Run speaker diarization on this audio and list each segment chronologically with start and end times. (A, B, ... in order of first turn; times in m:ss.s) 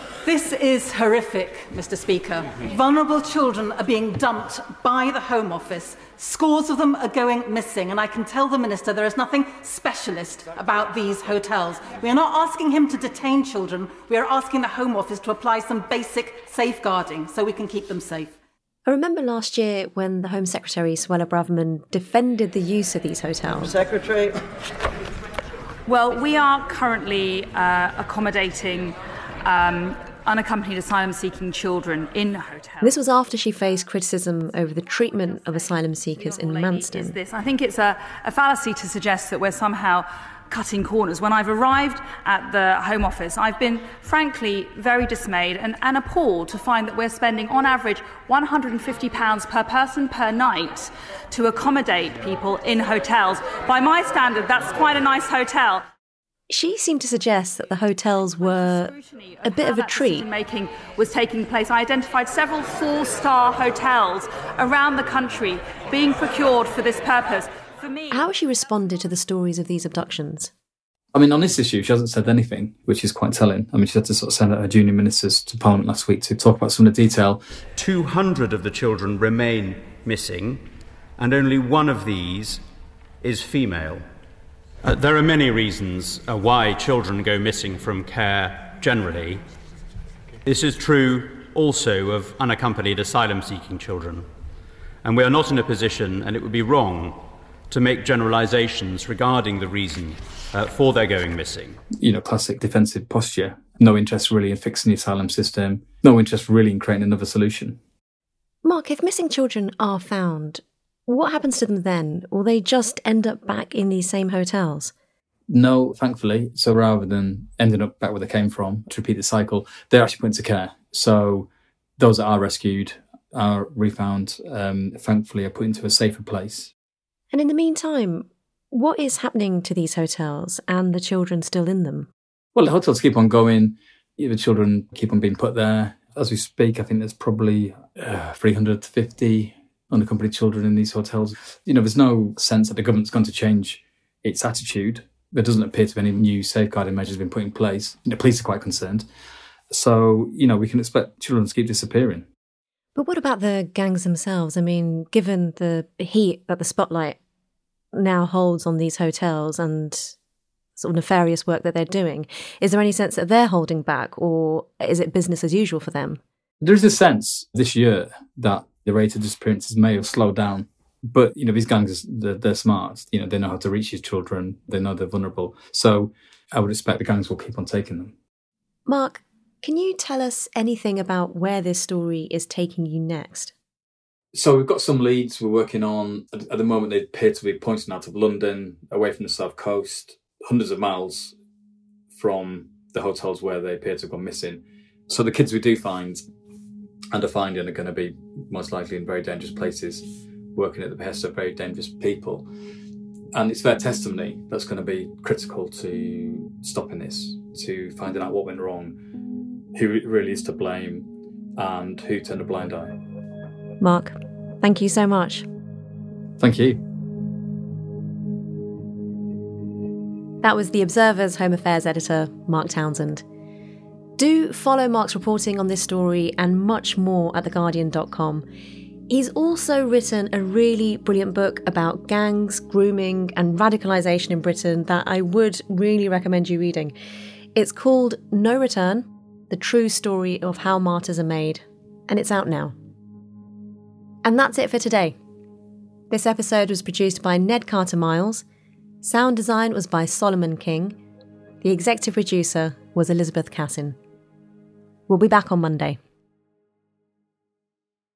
0:00.2-0:18.3 A
0:18.9-0:23.7 B
0:25.9-0:33.0 C
0:32.8-0:37.2 B
0:36.2-0:55.8 C
0:56.5-0:58.9 B
0:58.5-1:08.2 C
0:59.4-1:00.3 B
1:08.1-1:10.5 B
1:11.1-1:17.4 D
1:17.8-1:20.6 E
1:21.2-1:22.6 E
1:23.2-1:24.0 E
1:24.8-1:29.4 E
1:30.4-1:34.3 E
1:35.0-1:41.8 E
1:42.0-1:47.8 D
1:48.6-1:54.9 B
1:55.5-2:06.7 D
2:07.3-2:12.1 B
2:12.5-2:29.0 D
2:29.7-2:32.2 D
2:33.0-2:37.2 B
2:37.9-2:40.1 B
2:40.8-2:46.2 B
2:46.6-2:58.1 D
2:58.9-3:03.5 B
3:04.3-3:11.4 D
3:12.1-3:16.2 D
3:17.1-3:22.5 D
3:23.3-3:29.0 D
3:29.7-3:33.0 D
3:33.8-3:35.4 B
3:36.4-3:36.8 D
3:40.4-3:43.2 B
3:44.2-3:48.4 B
3:49.1-3:56.9 B
3:57.6-4:02.7 B
4:04.2-4:05.1 B
4:06.1-4:08.4 B
4:09.0-4:11.0 B
4:11.6-4:14.0 B
4:15.1-4:16.0 B